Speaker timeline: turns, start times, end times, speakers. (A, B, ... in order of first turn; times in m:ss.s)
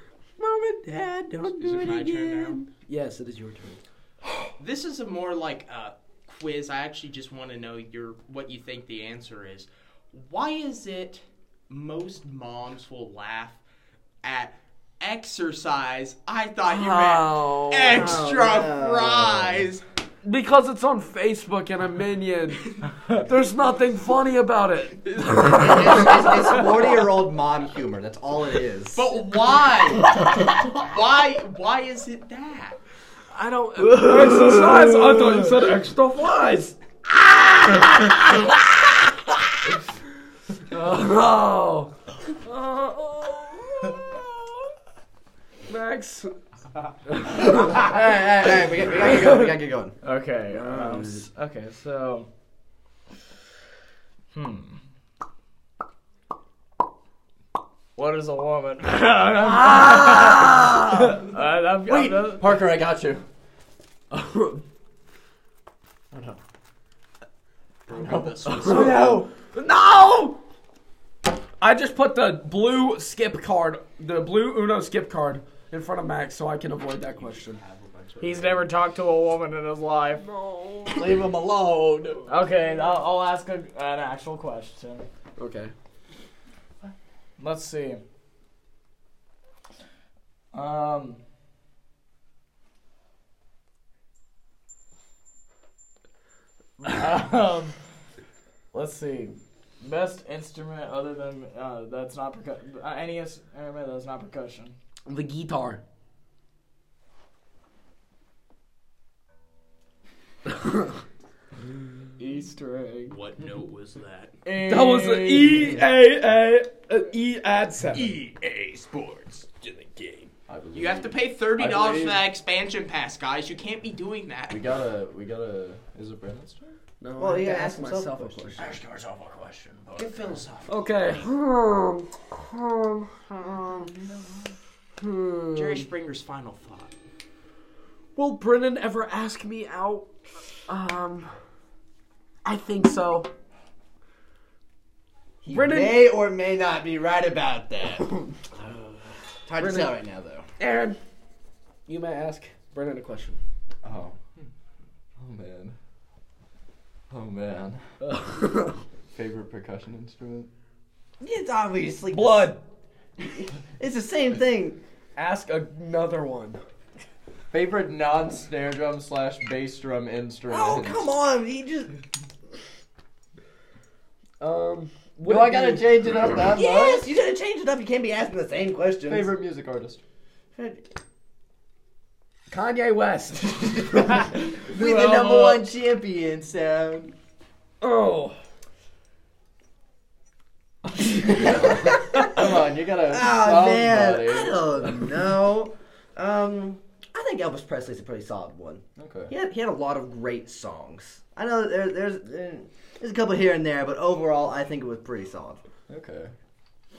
0:00.4-0:04.5 A
0:01.6-0:02.6 B
0:04.6-0:13.6 B
0:14.2-0:19.8 B
0:16.6-0:18.2 A
0:17.9-0:19.7 C
0:20.2-0:26.6 A
0:25.1-0:26.1 B
0:25.4-0:29.1 C
0:28.9-0:32.8 B
0:33.3-0:39.4 A
0:33.8-0:35.5 D
0:40.7-0:44.3 A
0:45.7-0:46.3 A
0:47.1-0:47.8 A
0:47.4-0:50.0 C
0:50.0-0:52.3 D
0:50.5-0:51.3 A
0:54.3-0:54.8 D
0:58.0-1:02.6 D
0:59.4-1:00.8 A
1:01.9-1:03.2 E
1:04.1-1:04.6 A
1:07.9-1:09.0 B
1:08.1-1:09.3 D
1:08.5-1:10.4 A
1:11.6-1:17.6 A
1:17.1-1:18.7 B
1:18.2-1:20.2 D
1:20.2-1:21.2 A
1:21.0-1:22.2 E
1:22.3-1:25.1 D
1:25.4-1:25.7 A
1:27.4-1:28.0 D
1:30.5-1:31.2 D
1:36.8-1:37.8 D
1:38.7-1:44.8 D
1:45.0-1:45.8 A
1:50.5-1:50.7 A
1:52.2-1:53.2 D
1:53.1-1:54.3 B
1:54.4-1:55.8 D
1:54.6-1:58.2 A
1:57.9-1:59.7 B
1:59.7-2:00.3 A
2:00.5-2:02.2 E
2:00.7-2:04.7 B
2:04.5-2:06.7 E
2:07.0-2:08.7 A
2:07.2-2:08.8 C
2:08.6-2:10.4 E
2:09.9-2:10.9 B
2:10.7-2:13.9 A
2:15.0-2:15.8 A
2:15.5-2:16.9 B
2:18.1-2:20.1 A
2:20.7-2:21.3 A
2:22.4-2:23.3 A
2:25.4-2:26.1 A
2:25.4-2:28.2 C
2:29.4-2:30.5 C
2:29.6-2:30.0 A
2:30.6-2:31.0 A
2:31.8-2:33.4 A
2:33.8-2:34.2 E
2:35.2-2:35.8 E
2:37.1-2:37.8 E
2:38.0-2:38.8 A
2:39.1-2:40.5 E
2:41.2-2:42.6 C
2:42.1-2:42.6 A
2:43.8-2:44.8 C
2:45.2-2:46.6 A
2:47.5-2:51.1 E
2:50.5-2:51.9 C
2:54.4-2:56.2 A
2:55.3-2:59.3 C
2:59.0-3:00.0 E
3:00.5-3:00.8 C
3:02.5-3:04.2 A
3:04.6-3:07.1 C
3:04.8-3:05.6 D
3:07.8-3:08.4 A
3:11.3-3:12.4 C
3:11.4-3:15.0 E
3:13.1-3:25.6 C
3:19.0-3:19.3 E
3:25.9-3:26.3 E